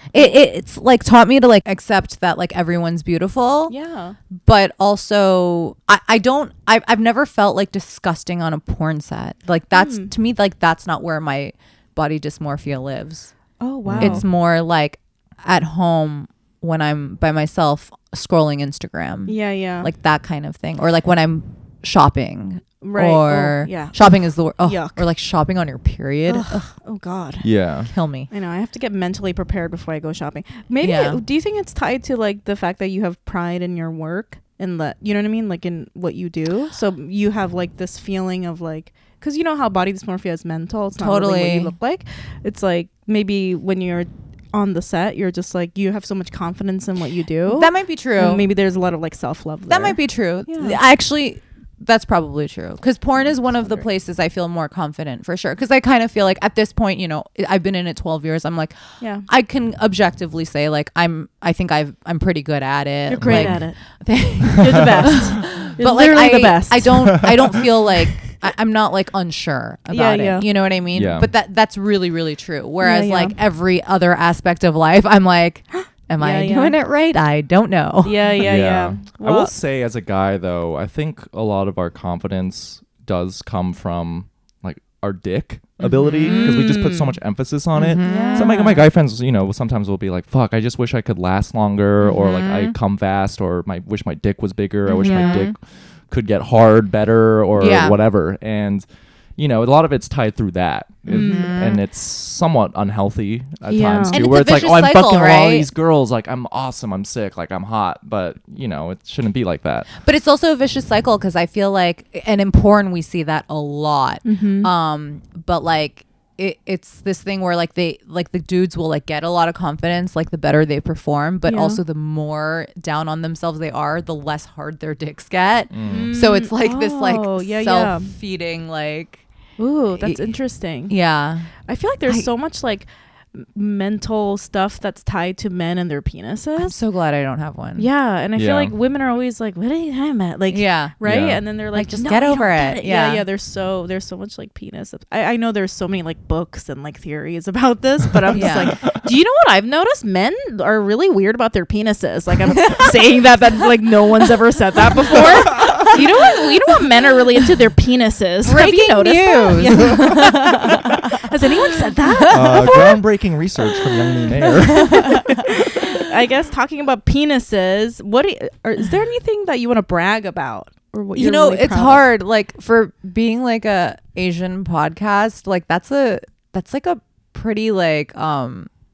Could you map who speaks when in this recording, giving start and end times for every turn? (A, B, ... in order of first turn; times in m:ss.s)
0:00.1-0:03.7 A
0:03.7-0:04.2 B
0:04.4-0:13.3 A
0:09.7-0:10.1 B
0:13.6-0:14.2 B
0:13.8-0:14.2 C
0:14.0-0:26.7 A
0:19.3-0:19.9 B
0:22.8-0:25.0 B
0:26.3-0:27.5 B
0:27.4-0:27.9 C
0:27.9-0:28.3 A
0:28.3-0:50.8 B
0:30.8-0:31.2 A
0:41.0-0:41.7 A
0:47.4-0:48.4 A
0:49.7-0:58.8 A
0:59.0-0:59.3 B
0:59.3-1:18.4 A
1:03.1-1:03.8 B
1:03.2-1:03.6 C
1:04.4-1:07.6 B
1:04.6-1:05.2 C
1:09.9-1:10.5 B
1:10.9-1:11.3 C
1:12.8-1:13.4 B
1:16.2-1:16.8 B
1:18.0-1:19.5 B
1:18.4-1:38.8 C
1:26.0-1:26.6 A
1:26.2-1:27.2 B
1:27.8-1:28.8 A
1:28.0-1:28.8 B
1:32.0-1:32.8 A
1:34.9-1:35.4 B
1:34.9-1:35.5 A
1:37.6-1:38.0 A
1:39.4-1:49.9 C
1:41.1-1:41.8 A
1:41.1-1:41.5 B
1:43.7-1:44.2 B
1:44.1-1:45.7 A
1:50.0-2:09.2 A
1:54.2-1:54.7 B
2:01.4-2:01.8 B
2:05.7-2:06.1 C
2:05.8-2:08.1 B
2:09.6-2:10.9 B
2:10.0-2:10.3 A
2:10.9-2:11.5 A
2:11.7-2:16.8 B
2:16.6-2:17.9 A
2:17.8-2:43.0 B
2:18.4-2:18.7 C
2:20.5-2:21.0 A
2:21.0-2:21.4 C
2:21.7-2:23.2 A
2:28.3-2:28.8 A
2:35.6-2:36.0 A
2:38.4-2:43.0 A
2:42.3-2:45.3 C
2:44.5-2:46.0 A
2:44.7-2:52.0 B
2:51.1-2:58.7 A